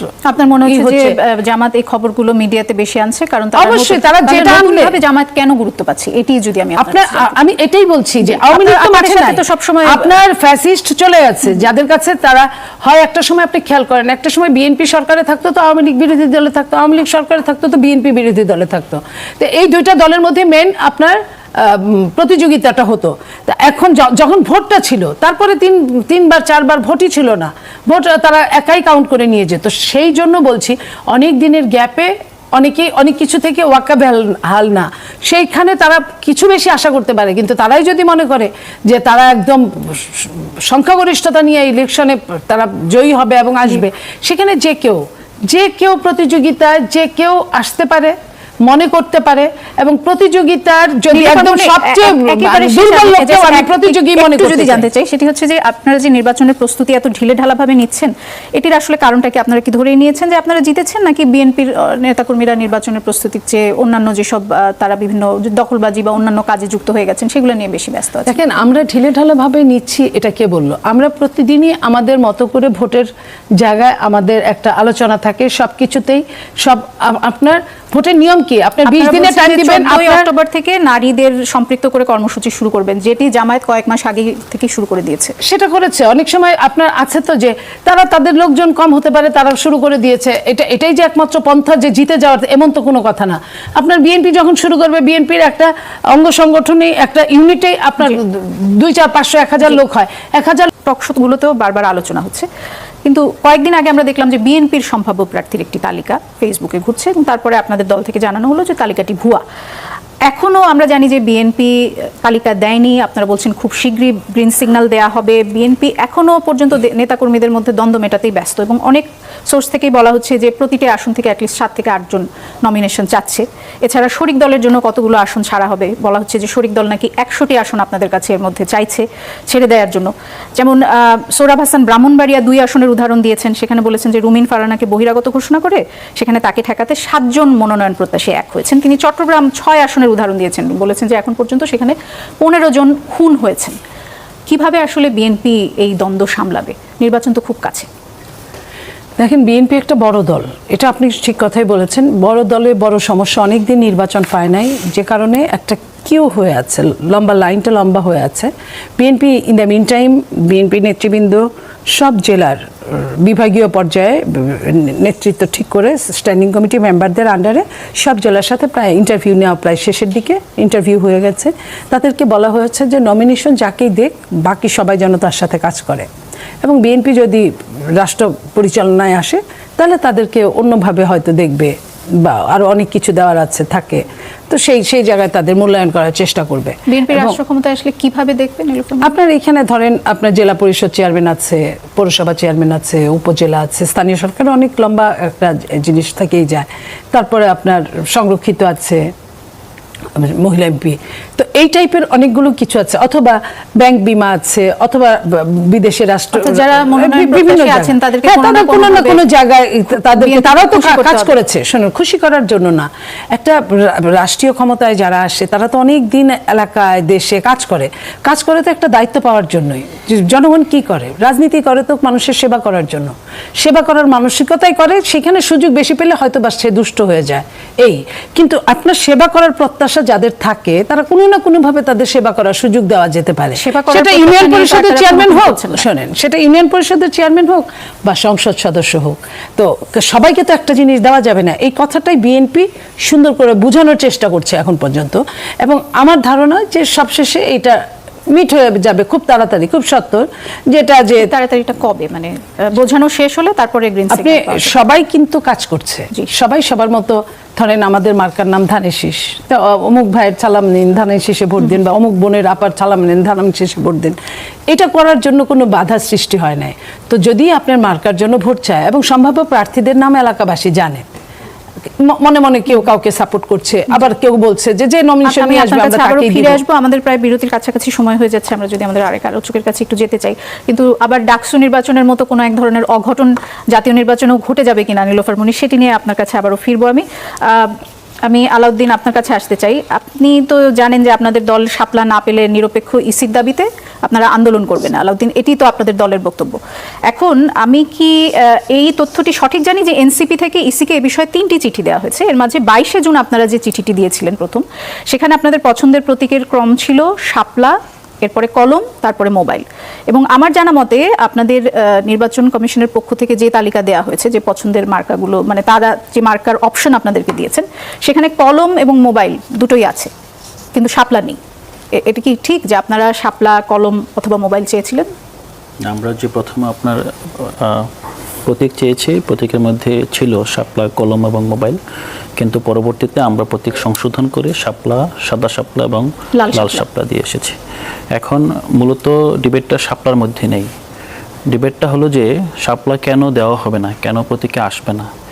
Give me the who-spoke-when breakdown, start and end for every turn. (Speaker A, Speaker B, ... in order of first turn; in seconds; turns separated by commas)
Speaker A: 0.2-7.4, Speaker B: 0.6-1.1, Speaker B: 3.5-5.0, Speaker B: 6.8-54.9, Speaker A: 8.2-10.1, Speaker A: 51.1-68.5, Speaker B: 68.2-73.1, Speaker B: 73.6-80.3, Speaker A: 78.8-85.3, Speaker B: 85.4-100.7, Speaker A: 100.9-102.5, Speaker A: 103.0-109.4, Speaker A: 110.3-143.8, Speaker A: 144.5-147.9, Speaker B: 149.2-176.1, Speaker B: 176.6-187.4, Speaker A: 186.9-189.1, Speaker B: 189.0-199.1, Speaker B: 200.2-247.8, Speaker A: 206.3-209.2, Speaker A: 210.1-211.3, Speaker A: 233.6-235.8, Speaker B: 248.3-251.3, Speaker A: 251.2-254.7, Speaker B: 254.1-264.1, Speaker B: 264.7-271.1, Speaker B: 272.0-276.6, Speaker A: 275.2-320.1, Speaker A: 320.8-321.4, Speaker A: 322.0-325.1, Speaker C: 325.9-327.9, Speaker C: 328.5-331.8, Speaker C: 332.4-337.6, Speaker A: 336.3-336.8, Speaker C: 338.1-340.7, Speaker C: 341.5-345.1